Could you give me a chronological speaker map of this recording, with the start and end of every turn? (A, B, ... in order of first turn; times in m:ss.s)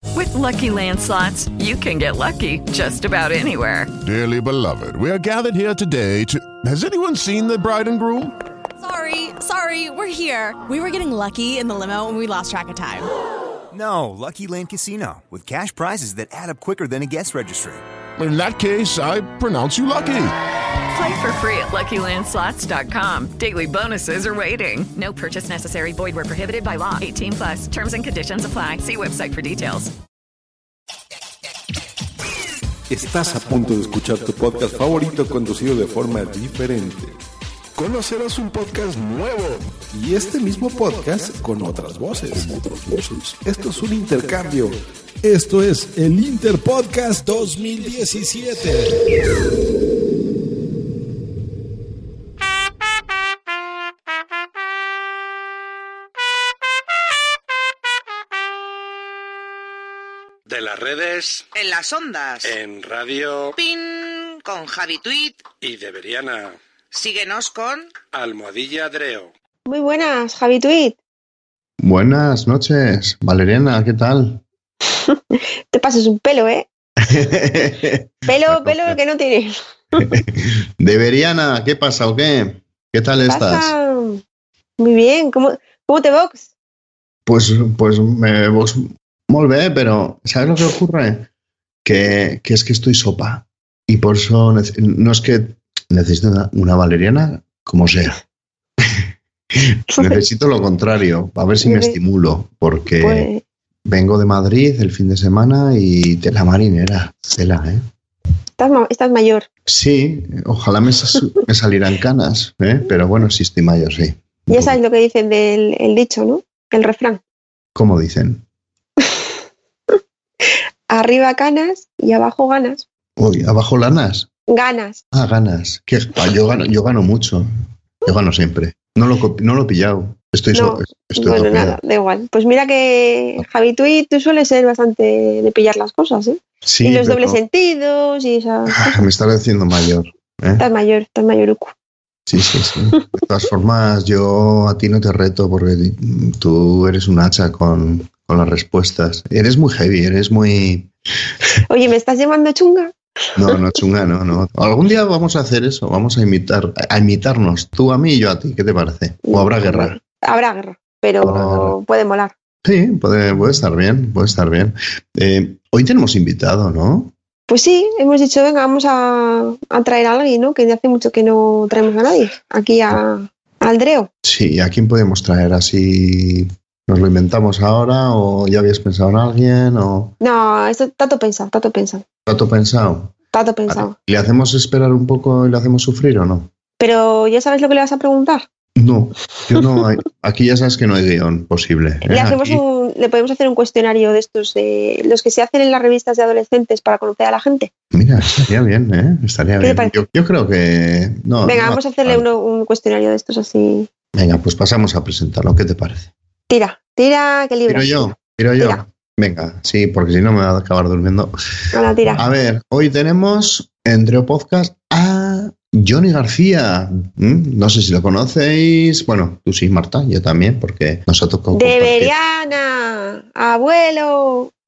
0:00.1-0:03.9 A
0:04.0-0:08.3 B
0:08.8-0:13.1 C
0:13.7-0:17.8 D
0:18.2-0:20.3 B
0:20.9-0:29.9 A
0:32.9-0:37.1 E
0:37.8-0:48.8 E
1:00.5-1:01.4 F
1:01.6-1:02.5 G
1:02.5-1:03.5 F
1:03.6-1:05.4 G
1:05.6-1:06.6 F
1:06.9-1:07.9 G
1:08.1-1:09.3 F
1:09.7-1:11.0 H
1:11.8-1:14.4 I
1:15.1-1:16.7 H
1:17.0-1:19.0 I
1:18.3-1:20.1 H
1:20.0-1:23.8 I
1:23.3-1:24.2 H
1:24.8-1:26.5 H
1:27.2-1:31.3 I
1:31.8-1:38.2 I
1:39.6-1:43.3 I
1:39.9-1:40.2 H
1:41.6-1:42.0 H
1:42.9-1:43.4 H
1:43.8-1:47.8 I
1:48.6-1:49.5 H
1:49.7-1:54.8 I
1:54.5-1:57.2 H
1:57.8-1:58.4 I
2:00.9-2:02.8 H
2:03.2-2:04.3 I
2:04.5-2:05.0 H
2:05.1-2:07.5 I
2:08.0-2:11.8 I
2:10.5-2:19.1 H
2:16.6-2:17.4 I
2:18.7-2:20.6 I
2:20.6-2:21.7 H
2:22.3-2:30.9 I
2:31.7-2:32.9 H
2:33.4-2:40.0 I
2:39.2-2:42.3 H
2:41.2-2:41.8 I
2:42.6-2:47.1 I
2:47.5-2:54.1 H
2:54.2-3:00.2 I
3:00.2-3:02.0 H
3:02.2-3:03.1 I
3:03.3-3:03.9 H
3:03.7-3:06.5 I
3:06.8-3:08.5 H
3:08.8-3:12.6 I
3:12.1-3:17.7 H
3:17.9-3:22.2 I
3:19.6-3:20.0 H
3:21.4-3:23.9 H
3:24.2-3:26.1 I
3:26.5-3:28.8 H
3:27.7-3:31.3 I
3:31.7-3:32.2 H
3:32.2-3:42.1 I
3:41.5-3:44.5 H